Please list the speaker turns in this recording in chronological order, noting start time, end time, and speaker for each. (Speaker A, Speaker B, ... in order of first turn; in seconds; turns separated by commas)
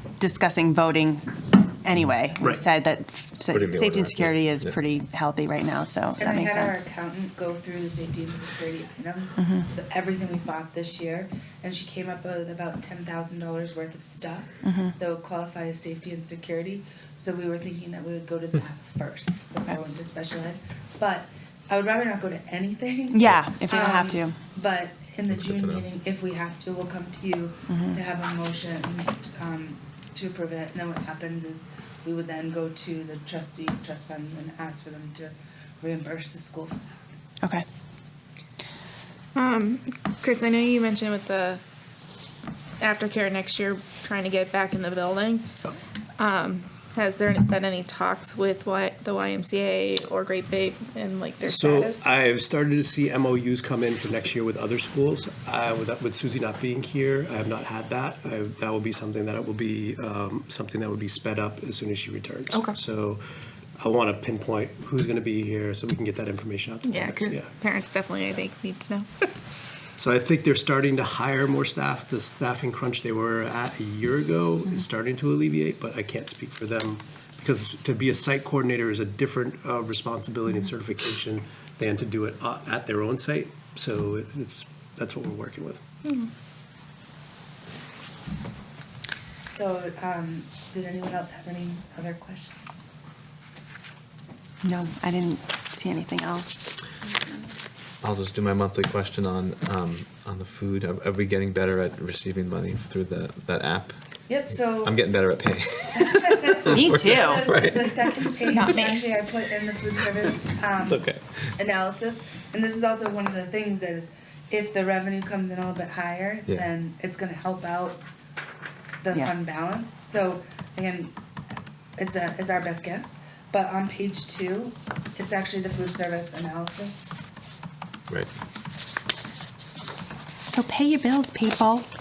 Speaker A: 0.2-6.9, Speaker B: 3.5-4.8, Speaker C: 6.2-37.0, Speaker A: 9.4-9.7, Speaker A: 14.6-14.9, Speaker A: 23.1-24.4, Speaker B: 25.3-25.9, Speaker A: 27.7-28.0, Speaker D: 39.4-41.6, Speaker D: 42.8-45.5, Speaker D: 46.2-52.1, Speaker E: 51.5-63.2, Speaker D: 62.5-62.8, Speaker E: 63.8-67.5, Speaker D: 66.8-69.3, Speaker E: 70.0-85.8, Speaker C: 89.5-92.8, Speaker A: 94.6-96.8, Speaker B: 98.0-104.0, Speaker C: 104.3-105.0, Speaker B: 104.5-108.8, Speaker C: 106.0-111.1, Speaker A: 106.7-107.5, Speaker D: 108.5-109.1, Speaker B: 110.8-111.5, Speaker C: 111.6-118.0, Speaker C: 119.0-121.2, Speaker C: 122.0-127.1, Speaker A: 130.5-131.9